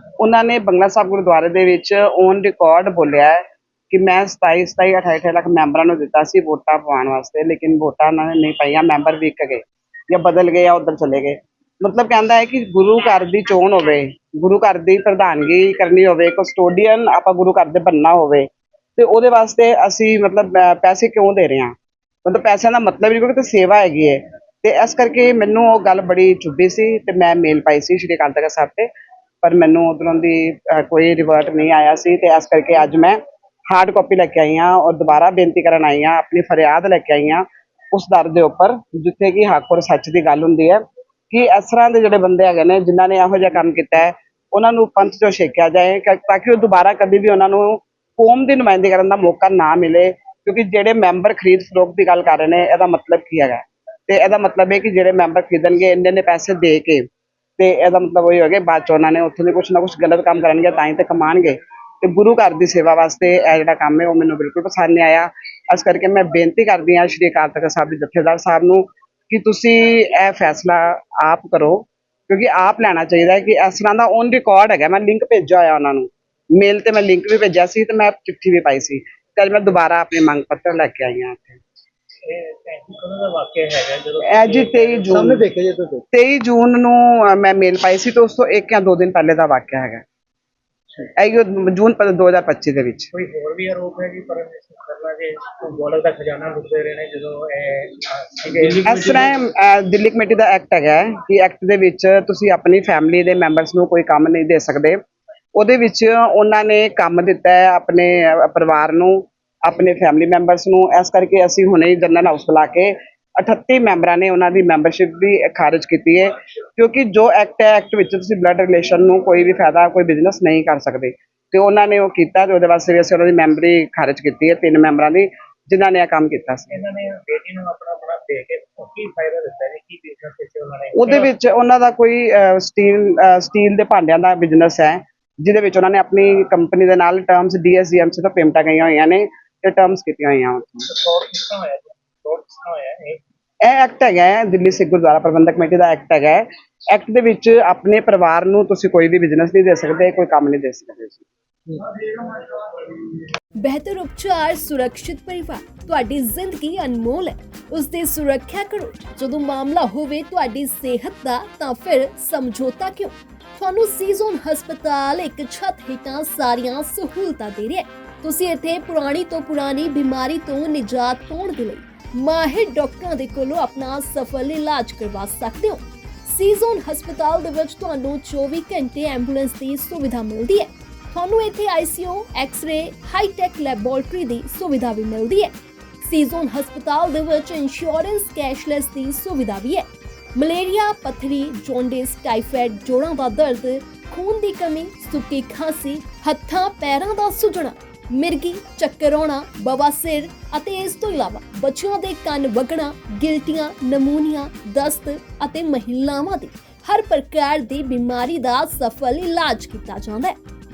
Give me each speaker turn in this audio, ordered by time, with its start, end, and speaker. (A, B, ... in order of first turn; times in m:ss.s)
0:00.2-0:03.4 A
0:03.9-0:21.7 A
0:22.2-0:28.9 A
0:29.4-0:33.2 A
0:33.7-0:57.1 A
0:57.6-1:21.6 A
1:22.3-1:26.0 B
1:24.2-1:25.5 A
1:26.1-1:30.0 A
1:31.0-1:33.1 A
1:33.1-1:39.4 B
1:38.7-1:45.0 A
1:45.5-2:06.7 A
2:06.7-2:11.3 B
2:11.0-2:20.8 A
2:20.9-2:23.2 B
2:23.6-2:32.3 A
2:33.6-3:30.4 C